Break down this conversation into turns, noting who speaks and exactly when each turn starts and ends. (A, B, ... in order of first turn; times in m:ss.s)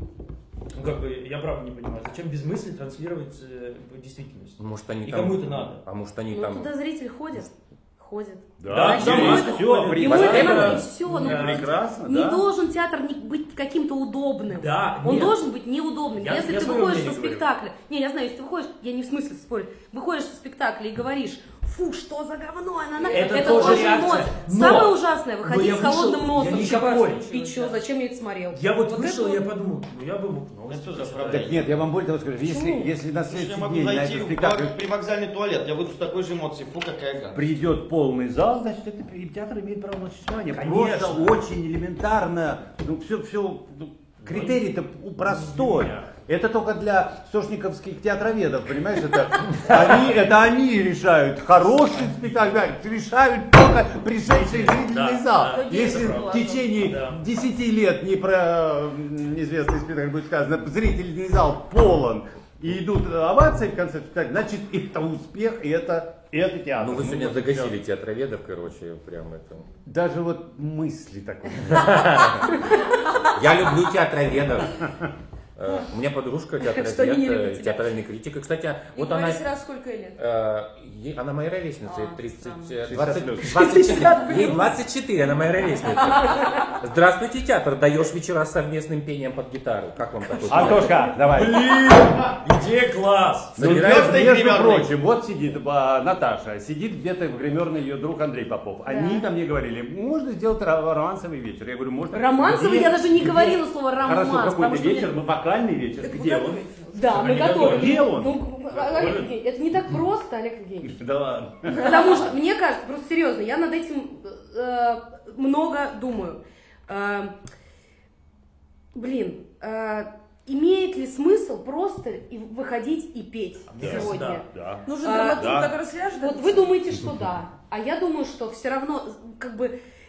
0:00.7-0:05.8 A
0:04.6-0:06.7 B
0:06.3-0:29.4 C
0:08.6-0:12.5 D
0:08.6-0:11.7 A
0:10.0-0:10.8 B
0:14.5-0:15.5 A
0:16.1-0:17.5 A
0:23.0-0:24.0 E
0:23.1-0:27.8 A
0:28.5-0:31.6 A
0:30.7-0:31.7 F
0:31.2-0:34.8 D
0:32.4-0:32.9 C
0:33.2-0:37.4 F
0:37.3-1:07.7 D
0:40.5-0:41.4 A
0:44.2-0:44.6 A
0:45.2-0:46.1 A
0:54.3-0:57.2 A
0:55.4-0:56.8 E
1:06.8-1:09.7 B
1:09.8-1:12.3 D
1:11.7-1:12.5 B
1:13.3-1:14.9 B
1:15.6-1:19.4 B
1:16.6-1:17.8 C
1:18.9-1:20.2 E
1:20.2-1:31.1 B
1:21.8-1:22.8 E
1:22.8-1:23.6 D
1:23.4-1:24.8 E
1:26.0-1:26.3 E
1:30.5-1:32.3 D
1:31.3-1:33.6 A
1:33.6-1:34.2 B
1:33.6-1:46.6 D
1:33.6-1:34.9 F
1:38.8-1:39.2 C
1:42.1-1:45.1 C
1:46.0-1:47.6 E
1:46.9-1:50.9 C
1:47.1-1:48.1 A
1:47.4-1:48.3 D
1:48.6-1:49.3 A
1:50.8-1:52.3 D
1:51.7-1:57.3 C
1:58.9-2:04.4 C
2:03.7-2:04.4 A
2:03.8-2:04.8 D
2:03.8-2:06.8 E
2:05.0-2:09.7 C
2:05.3-2:05.7 D